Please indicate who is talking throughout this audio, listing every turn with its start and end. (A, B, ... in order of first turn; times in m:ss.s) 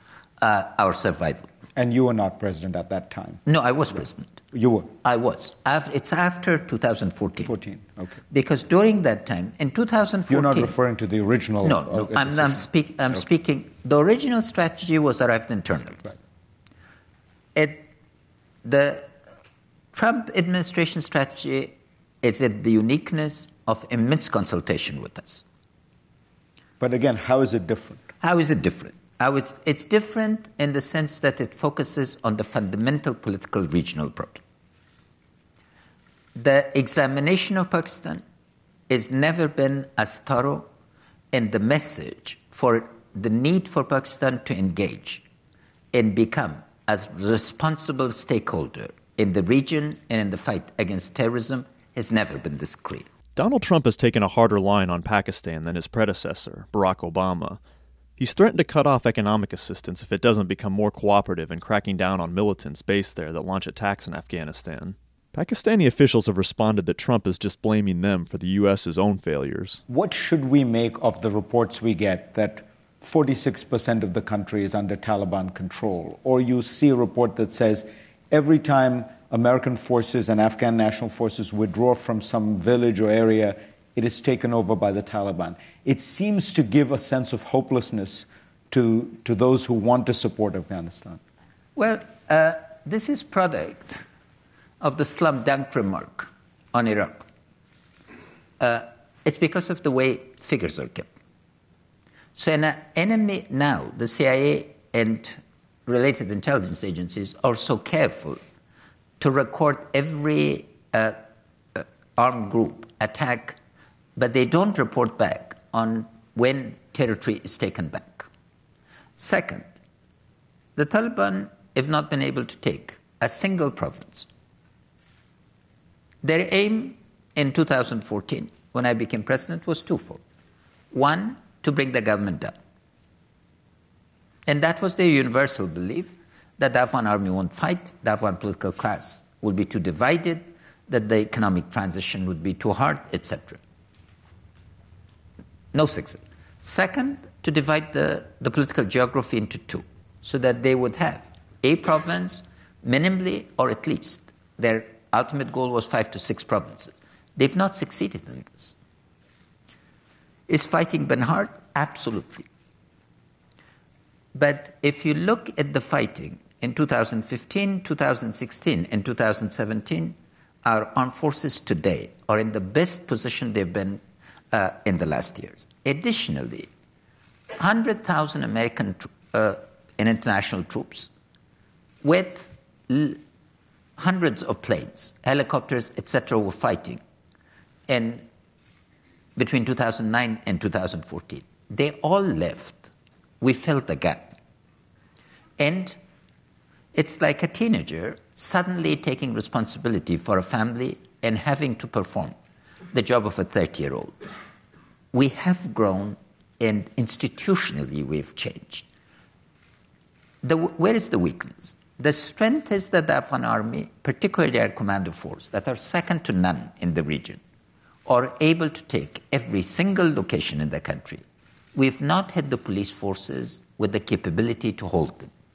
0:00.4-0:01.5 A
0:01.8-0:03.4 B
0:03.4-0:04.4 A
0:04.5-0:04.9 B
0:05.0-0:07.5 A
0:07.4-0:08.2 B
0:08.3-0:10.8 A
0:10.3-0:12.6 B
0:11.6-0:16.1 A
0:17.5-0:17.9 A
0:18.6-0:19.1 A
0:19.9-0:25.4 A
0:26.8-0:28.0 B
0:28.2-0:34.4 A
0:36.4-0:38.2 A
0:38.9-0:40.7 A
0:41.3-0:45.2 A
0:45.9-0:53.1 A
0:53.4-0:57.6 C
0:58.2-1:09.8 C
1:09.9-1:31.2 B
1:31.8-1:34.0 A
1:34.8-1:37.2 A
1:38.6-1:41.1 A
1:42.4-1:48.4 A
1:49.2-1:51.2 A
1:51.7-1:53.6 A
1:54.2-1:58.3 A
1:59.2-1:59.8 A
2:00.8-2:04.3 A
2:06.2-2:10.2 A
2:10.9-2:12.6 A
2:14.4-2:23.6 A
2:25.7-2:38.8 A
2:40.5-2:42.5 A
2:44.3-2:56.7 A
2:57.6-3:01.1 A
3:02.0-3:03.2 A
3:04.0-3:07.0 A
3:07.9-3:08.2 A
3:09.4-3:12.9 A
3:13.4-3:14.4 A
3:15.6-3:16.0 A
3:16.9-3:22.4 A
3:22.9-3:24.1 A
3:25.1-3:28.9 A
3:30.4-3:37.4 A
3:38.0-3:41.2 A
3:41.7-3:45.3 A